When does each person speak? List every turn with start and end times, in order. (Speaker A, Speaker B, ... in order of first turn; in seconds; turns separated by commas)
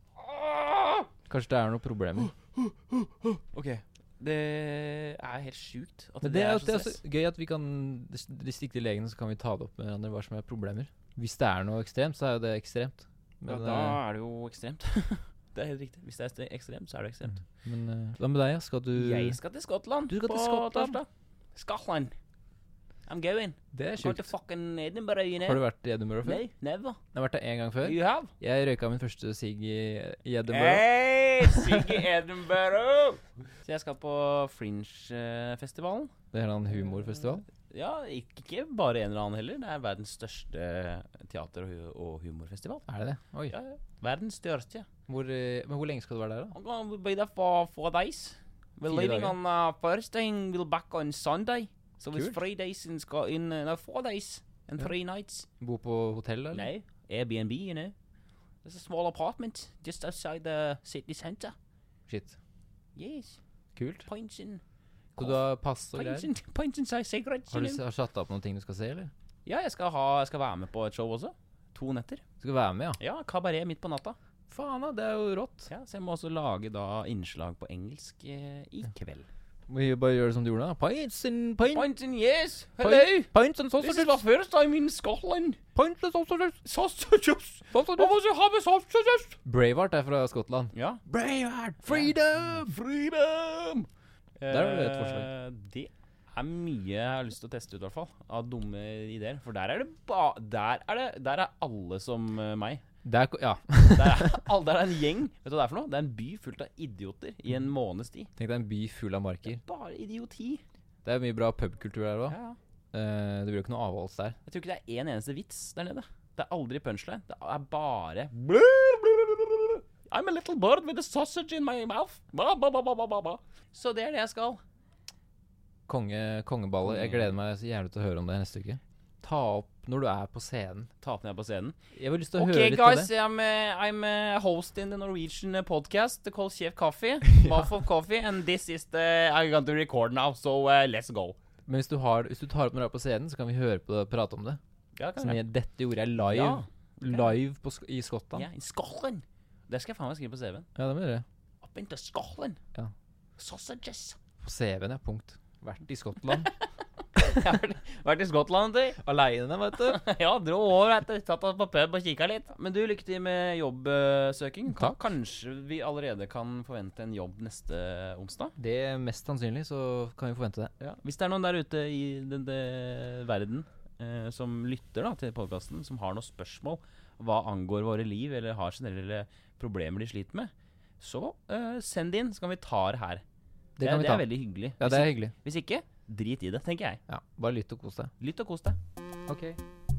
Speaker A: 0.2-1.1, Speaker B: 1.3-2.3, Speaker A: 2.6-7.0, Speaker B: 6.2-14.0, Speaker A: 13.5-17.4, Speaker B: 17.5-19.4, Speaker A: 19.0-22.1, Speaker B: 20.1-21.0, Speaker A: 23.1-25.6, Speaker B: 23.7-24.3, Speaker B: 25.4-26.4, Speaker A: 26.2-27.0, Speaker B: 27.1-30.9, Speaker A: 27.8-28.3, Speaker A: 30.5-36.1, Speaker B: 31.4-32.1, Speaker B: 36.3-37.5, Speaker A: 37.7-42.9, Speaker B: 42.9-43.6, Speaker A: 43.5-44.9, Speaker B: 45.1-46.5, Speaker A: 46.5-55.5, Speaker B: 48.9-49.4, Speaker B: 55.6-56.7, Speaker A: 56.5-58.0, Speaker A: 58.6-61.5, Speaker B: 62.1-62.4, Speaker A: 63.0-63.4, Speaker B: 63.8-64.1, Speaker A: 64.0-64.6, Speaker B: 65.2-66.3, Speaker A: 65.9-67.8, Speaker B: 67.5-69.1, Speaker A: 69.5-72.2, Speaker B: 72.4-73.0, Speaker A: 73.0-74.2, Speaker B: 74.5-75.7, Speaker A: 75.7-79.3, Speaker B: 79.7-81.9, Speaker A: 81.7-85.6, Speaker B: 82.8-84.2, Speaker B: 85.8-86.6, Speaker A: 86.7-89.4, Speaker B: 87.7-88.2, Speaker B: 89.5-92.8, Speaker A: 90.7-91.0, Speaker A: 91.8-93.9, Speaker A: 94.4-102.8, Speaker B: 94.5-95.3, Speaker B: 103.0-104.5, Speaker A: 103.9-108.3, Speaker B: 108.4-109.6, Speaker A: 109.5-110.6, Speaker B: 111.0-112.4, Speaker A: 112.3-112.6, Speaker B: 112.9-114.4, Speaker A: 114.5-124.6, Speaker B: 125.9-130.9, Speaker A: 126.8-127.3, Speaker A: 131.0-131.8, Speaker B: 131.9-133.1, Speaker A: 132.3-141.4, Speaker B: 137.2-137.7, Speaker B: 141.7-144.6, Speaker A: 145.0-145.4, Speaker B: 145.2-148.5, Speaker A: 146.3-147.2, Speaker A: 148.3-150.7, Speaker B: 150.8-151.2, Speaker A: 151.6-152.6, Speaker A: 153.4-154.2, Speaker B: 154.4-156.5, Speaker A: 156.3-159.0, Speaker B: 159.0-160.0, Speaker A: 159.8-168.6, Speaker B: 168.6-170.7, Speaker A: 170.8-183.2, Speaker B: 183.8-185.3, Speaker A: 183.8-187.0, Speaker B: 187.1-188.1, Speaker A: 188.2-188.8, Speaker B: 189.3-189.6